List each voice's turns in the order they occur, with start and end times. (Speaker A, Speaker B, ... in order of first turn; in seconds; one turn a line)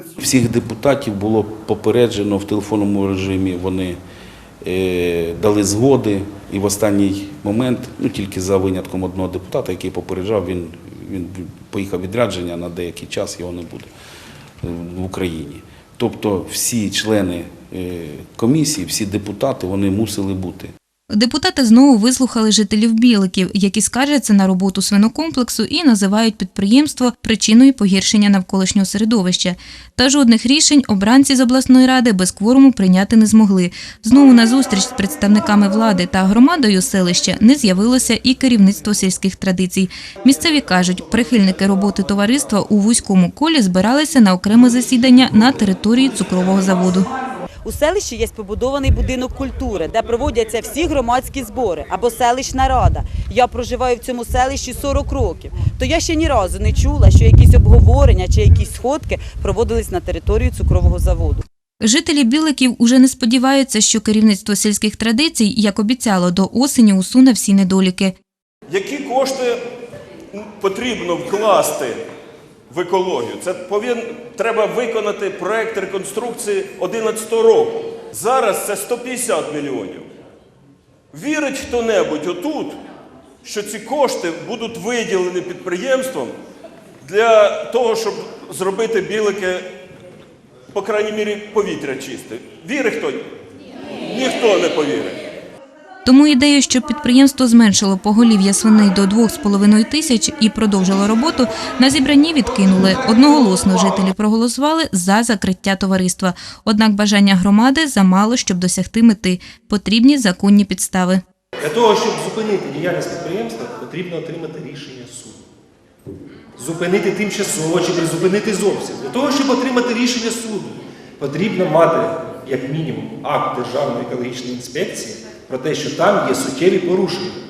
Speaker A: 0.2-4.0
Speaker A: 4.6-13.9
Speaker A: 14.6-20.7
Speaker B: 21.1-47.1
Speaker C: 47.6-61.4
Speaker B: 61.8-68.1
Speaker D: 68.7-69.6
Speaker D: 70.3-72.0
Speaker D: 72.7-80.0
Speaker D: 81.1-82.8
Speaker D: 83.4-86.3
Speaker D: 87.0-89.6
Speaker D: 90.7-93.2
Speaker D: 93.9-95.2
Speaker B: 96.0-111.2
Speaker E: 111.6-115.4
Speaker E: 116.6-127.3